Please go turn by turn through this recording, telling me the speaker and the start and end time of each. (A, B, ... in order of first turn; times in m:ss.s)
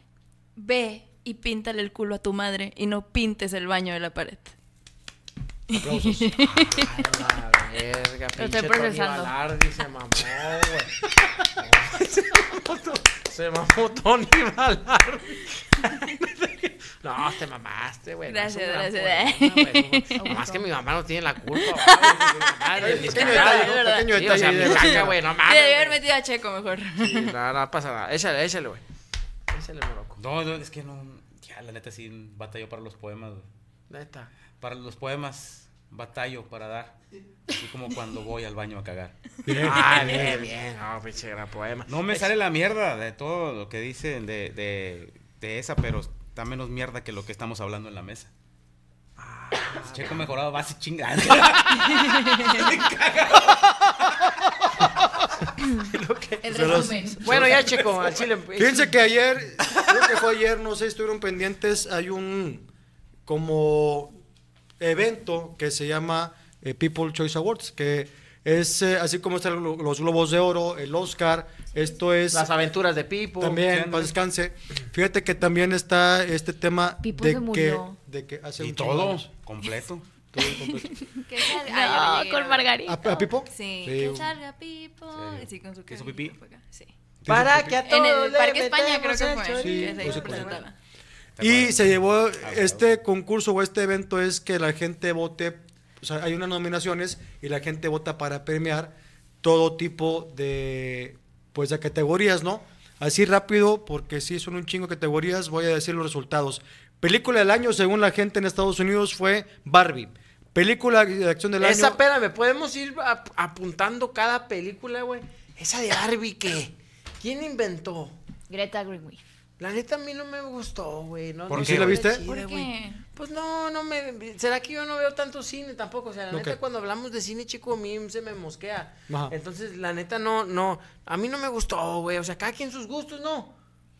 0:00.6-0:04.5 A
0:05.7-0:06.9 A
0:05.8-0:06.4 B
0:06.7-0:26.0 C
0:08.4-0:09.3 D
0:18.3-0:20.5 A
0:20.2-0:20.6 D
0:21.6-0:27.3 A
0:22.8-0:25.2 B
0:27.0-0:28.8 C
0:29.5-0:30.2 C
0:30.2-0:33.5 E
0:33.9-0:34.3 C
0:34.6-0:37.0 E
0:37.5-0:39.1 E
0:39.4-0:40.5 B
0:39.6-0:42.3 C
0:41.9-0:48.3 E
0:49.2-0:50.3 C
0:49.8-0:54.2 E
0:55.8-0:58.9 C
0:56.4-0:57.4 D
0:56.5-0:57.9 B
0:58.6-1:02.6 B
1:03.2-1:04.1 B
1:04.8-1:12.5 B
1:12.3-1:13.6 C
1:13.4-1:19.3 B
1:13.6-1:14.1 E
1:17.0-1:17.9 D
1:18.6-1:20.0 E
1:20.3-1:21.0 B
1:21.3-1:22.7 A
1:21.4-1:23.2 D
1:22.8-1:24.3 B
1:23.4-1:26.9 A
1:25.1-1:26.4 E
1:27.2-1:27.8 B
1:27.3-1:30.6 C
1:27.8-1:30.7 A
1:29.6-1:30.6 B
1:31.4-1:32.9 E
1:31.4-1:52.0 B
1:51.6-1:58.1 C
1:58.5-1:59.2 D
1:59.6-2:13.5 C
2:01.5-2:02.0 E
2:01.5-2:02.2 B
2:02.1-2:03.0 A
2:02.3-2:02.7 D
2:06.3-2:06.6 B
2:09.1-2:09.3 B